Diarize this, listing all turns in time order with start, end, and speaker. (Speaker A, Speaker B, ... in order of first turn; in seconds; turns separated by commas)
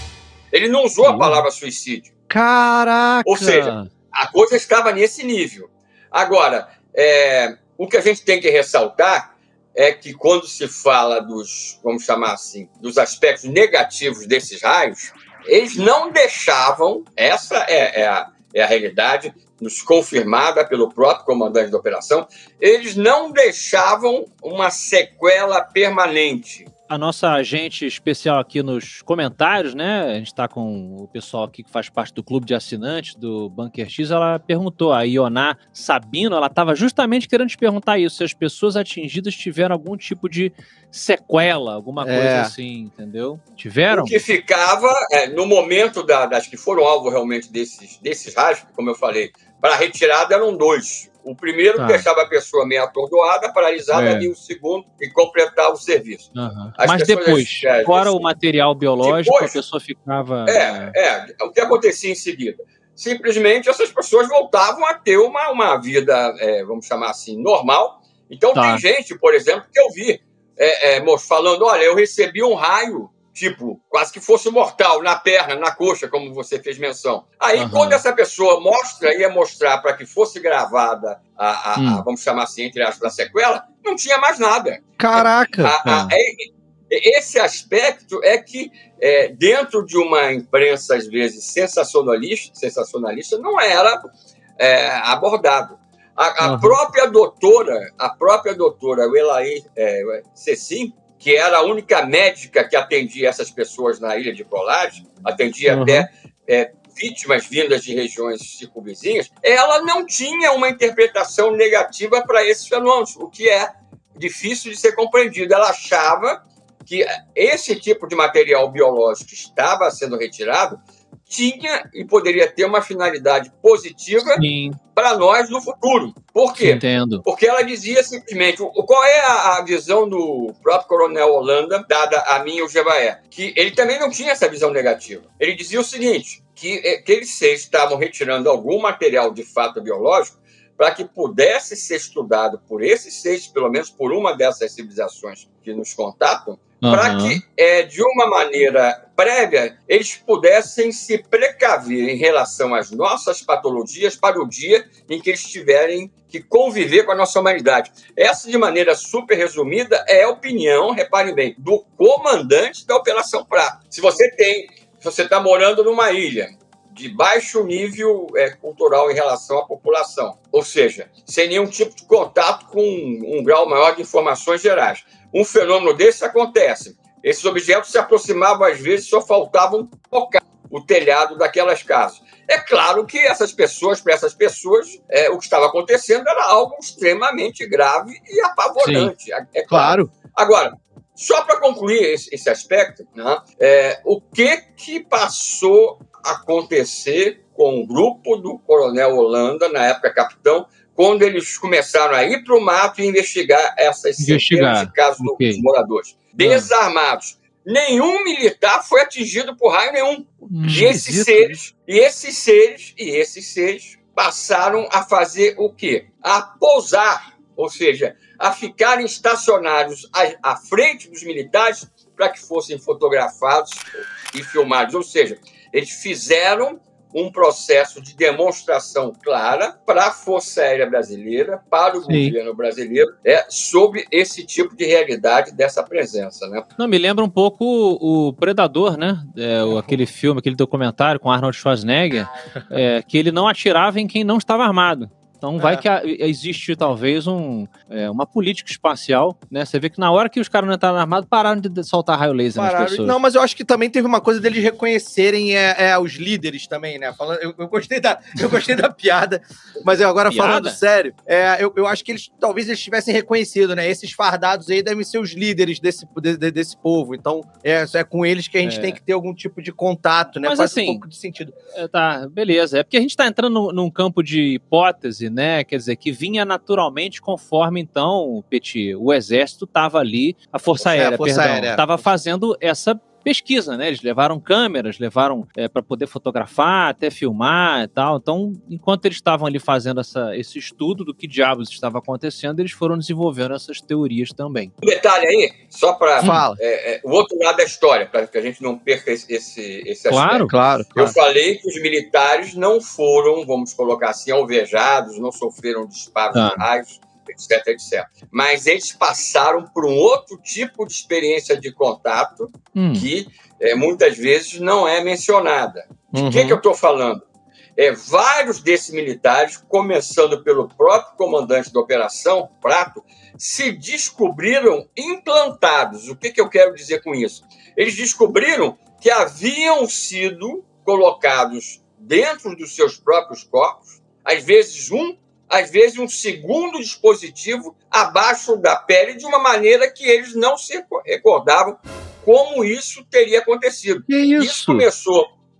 Speaker A: 0.5-2.1, Speaker B: 1.0-1.4, Speaker C: 2.3-3.7, Speaker A: 3.2-26.7, Speaker B: 3.6-3.9, Speaker B: 26.9-44.2, Speaker C: 42.0-42.5, Speaker A: 43.9-58.3, Speaker B: 53.9-54.3, Speaker B: 56.4-61.0, Speaker A: 59.0-59.6, Speaker A: 60.5-94.0, Speaker B: 68.5-68.8, Speaker B: 77.6-78.0, Speaker B: 81.8-82.0, Speaker C: 85.0-86.0, Speaker A: 94.6-124.4, Speaker C: 96.4-96.8, Speaker C: 105.7-106.1, Speaker B: 124.3-124.8, Speaker A: 125.0-236.7, Speaker B: 126.6-127.2, Speaker B: 146.8-147.4, Speaker C: 188.8-189.1, Speaker C: 189.7-190.1, Speaker B: 204.2-205.6, Speaker B: 206.4-206.7, Speaker B: 210.5-211.3, Speaker C: 210.6-211.5, Speaker C: 232.1-232.3, Speaker B: 236.8-253.2, Speaker C: 245.6-245.8, Speaker C: 252.6-271.6, Speaker B: 260.3-260.8, Speaker B: 268.6-269.0, Speaker B: 270.4-271.1, Speaker B: 271.7-294.7, Speaker C: 280.8-281.9, Speaker A: 294.8-317.2, Speaker C: 296.2-296.6, Speaker B: 300.1-300.5, Speaker C: 300.5-301.1, Speaker B: 306.3-306.6, Speaker B: 312.8-313.1, Speaker C: 316.1-316.6, Speaker A: 317.8-345.3, Speaker C: 344.1-344.9